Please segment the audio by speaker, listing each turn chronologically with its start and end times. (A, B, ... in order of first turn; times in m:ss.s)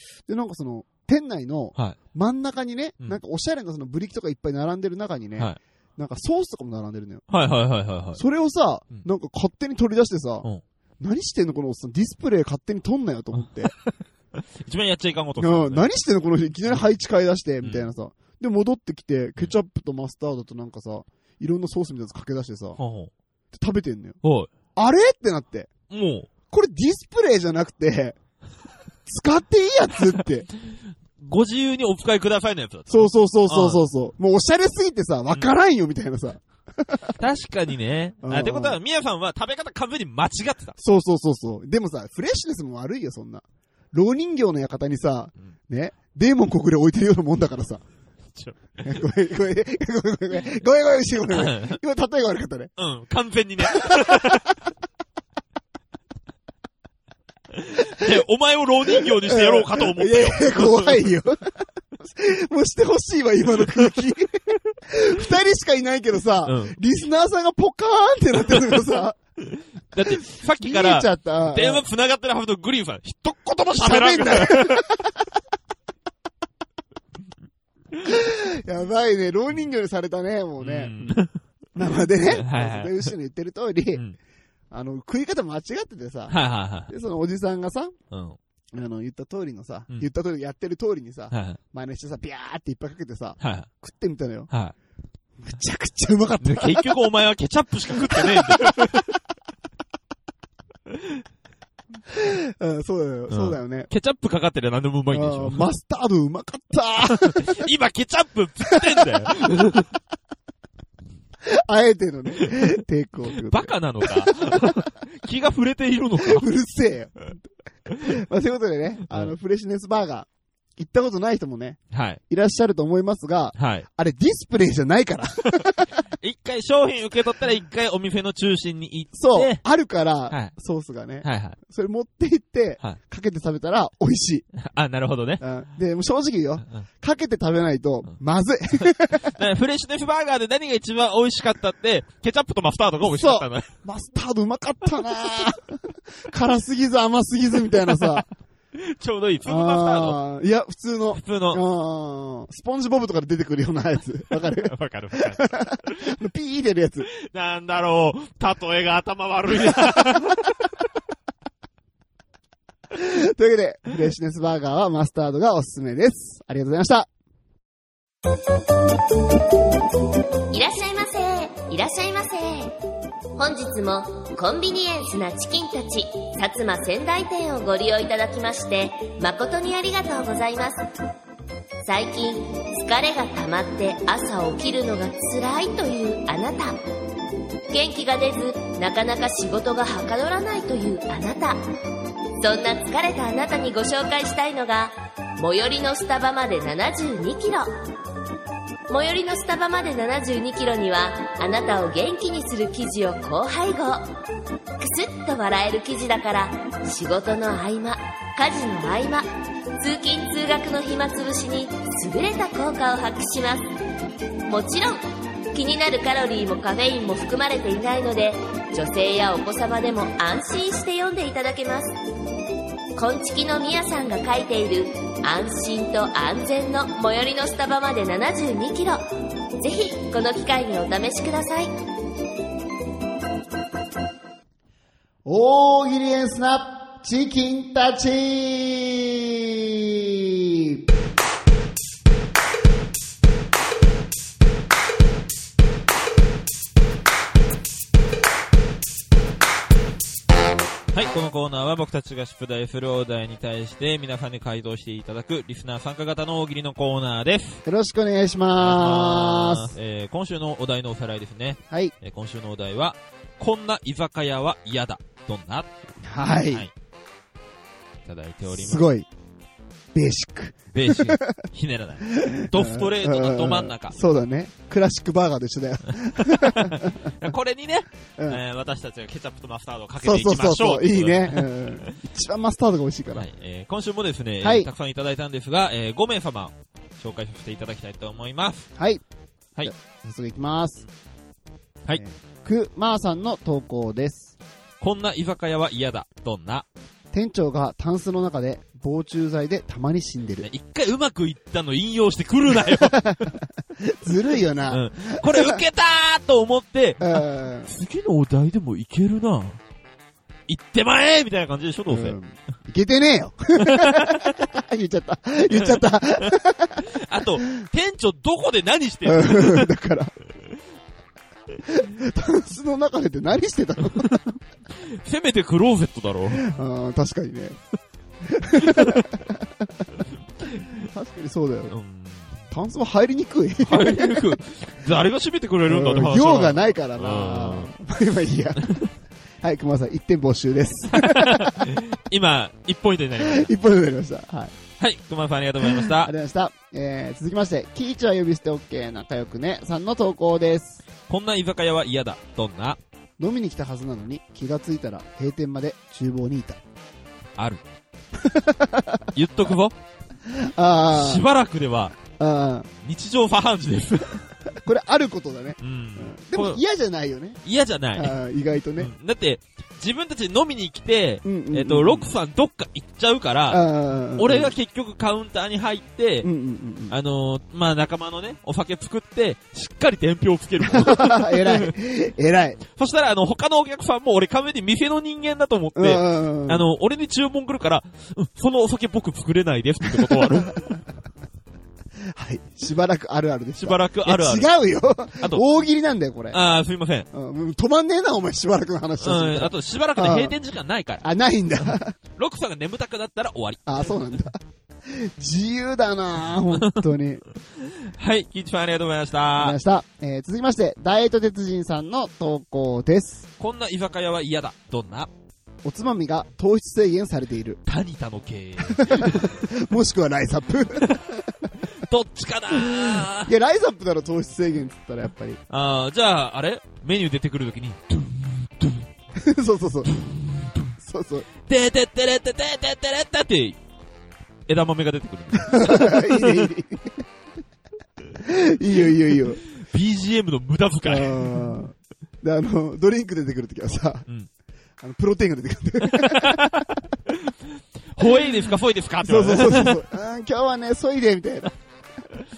0:00.3-0:07.3 A
0:07.3-0:08.2 B
0:08.1-0:10.5 A
0:11.0-0:13.7 A
0:14.6-0:15.9 B
0:15.4-0:22.8 A
0:17.6-0:17.9 B
0:22.8-0:23.1 B
0:23.5-0:24.2 A
0:24.2-0:24.5 B
0:24.8-0:25.7 A
0:25.9-0:26.3 B
0:26.5-0:28.2 A
0:29.0-0:30.5 A
0:31.2-0:33.8 B
0:32.9-0:37.1 A
0:37.2-0:40.8 B
0:38.2-0:38.8 A
0:40.8-0:47.8 A
0:48.3-0:49.0 B
0:48.8-0:52.7 A
0:51.3-0:51.8 B
0:52.8-0:54.5 B
0:53.7-0:54.5 A
0:57.5-1:01.1 B
0:59.0-1:09.2 A
1:06.4-1:06.8 B
1:09.4-1:14.8 B
1:10.0-1:11.8 A
1:13.7-1:15.2 A
1:18.0-1:21.1 A
1:20.6-1:21.4 B
1:21.8-1:24.0 A
1:22.3-1:23.1 B
1:24.7-1:26.4 A
1:26.3-1:26.9 B
1:26.9-1:28.0 A
1:28.1-1:28.4 B
1:28.7-1:34.5 A
1:31.3-1:31.6 B
1:33.4-1:33.7 B
1:34.5-1:34.8 B
1:35.4-1:37.0 A
1:36.4-1:39.1 B
1:37.9-1:39.0 A
1:42.1-1:43.9 A
1:43.3-1:45.7 B
1:45.1-1:47.6 A
1:47.1-1:49.9 B
1:48.8-1:49.5 A
1:51.4-1:54.9 A
1:53.4-1:56.5 B
1:56.2-1:57.4 A
1:58.0-2:05.9 A
2:01.9-2:02.2 B
2:03.5-2:03.8 B
2:06.2-2:09.6 B
2:09.1-2:14.4 A
2:10.3-2:10.5 B
2:11.2-2:11.6 B
2:14.6-2:15.4 B
2:15.4-2:19.4 A
2:18.8-2:23.7 B
2:23.0-2:28.3 A
2:28.8-2:30.2 B
2:29.4-2:37.1 A
2:31.1-2:31.6 B
2:34.6-2:36.1 B
2:37.2-2:40.5 B
2:39.5-2:40.3 A
2:42.9-2:47.1 A
2:50.5-2:52.7 C
2:53.4-3:00.9 C
3:01.8-3:06.8 C
3:07.7-3:11.6 C
3:12.4-3:17.8 C
3:18.9-3:24.1 C
3:24.8-3:33.7 C
3:34.5-3:42.0 C
3:42.9-3:49.0 C
3:49.6-3:51.7 C
3:55.2-4:00.8 A
4:10.9-4:17.6 B
4:17.6-4:19.7 A
4:18.6-4:25.7 B
4:26.0-4:26.7 A
4:28.0-4:28.9 B
4:28.5-4:29.1 A
4:29.9-4:31.4 A
4:30.7-4:34.0 B
4:32.1-4:37.1 A
4:36.2-4:41.9 B
4:40.0-4:43.3 A
4:43.1-4:48.7 B
4:44.4-4:44.7 A
4:48.8-4:49.0 A
4:49.6-4:50.8 A
4:52.0-4:54.4 A
4:54.8-4:56.6 B
4:57.1-5:00.5 A
5:00.4-5:03.0 B
5:02.5-5:05.6 A
5:04.7-5:09.6 B
5:07.0-5:07.7 A
5:10.5-5:12.2 B
5:11.9-5:16.8 A
5:13.6-5:14.4 B
5:15.5-5:16.3 B
5:16.9-5:19.7 B
5:19.0-5:20.1 A
5:21.7-5:24.4 A
5:24.9-5:26.5 B
5:26.4-5:27.6 A
5:28.2-5:29.8 A
5:28.6-5:29.1 B
5:30.8-5:31.8 A
5:31.7-5:32.3 B
5:32.5-5:34.4 A
5:33.6-5:37.7 B
5:35.6-5:38.8 A
5:39.4-5:41.8 A
5:40.9-5:43.5 B
5:43.2-5:44.6 A
5:44.8-5:46.1 B
5:45.6-5:50.8 A
5:51.1-5:52.8 B
5:53.2-5:56.6 A
5:57.4-5:57.6 B
5:58.1-5:59.1 A
5:59.1-5:59.8 B
6:00.2-6:01.2 A
6:00.9-6:02.0 B
6:02.2-6:02.7 A
6:02.8-6:04.2 B
6:04.5-6:07.4 A
6:05.6-6:06.6 B
6:07.4-6:08.2 B
6:08.0-6:08.9 A
6:08.8-6:16.3 B
6:11.2-6:12.1 A
6:13.5-6:14.5 A
6:16.2-6:17.0 A
6:16.9-6:21.7 B
6:20.6-6:22.6 A
6:22.7-6:30.6 B
6:25.8-6:26.7 A
6:30.0-6:30.8 A
6:32.1-6:36.4 A
6:33.6-6:34.5 B
6:35.2-6:35.4 B
6:36.3-6:37.1 B
6:37.1-6:40.4 A
6:39.0-6:41.1 B
6:41.0-6:42.0 A
6:42.2-6:44.0 B
6:43.6-6:47.2 A
6:47.8-6:49.6 B
6:49.4-6:53.3 A
6:53.4-6:55.1 B
6:55.6-6:57.6 A
6:57.6-6:59.4 B
6:58.7-7:01.5 A
7:01.6-7:03.3 B
7:02.5-7:05.4 A
7:05.5-7:08.8 B
7:09.2-7:09.9 A
7:10.0-7:10.6 B
7:10.8-7:11.3 A
7:11.5-7:13.6 B
7:14.5-7:16.5 B
7:15.4-7:17.0 A
7:18.2-7:19.4 A
7:19.5-7:21.3 B
7:20.8-7:24.0 A
7:24.8-7:26.6 A
7:25.8-7:27.3 B
7:27.9-7:29.8 B
7:28.0-7:28.4 A
7:29.0-7:31.5 A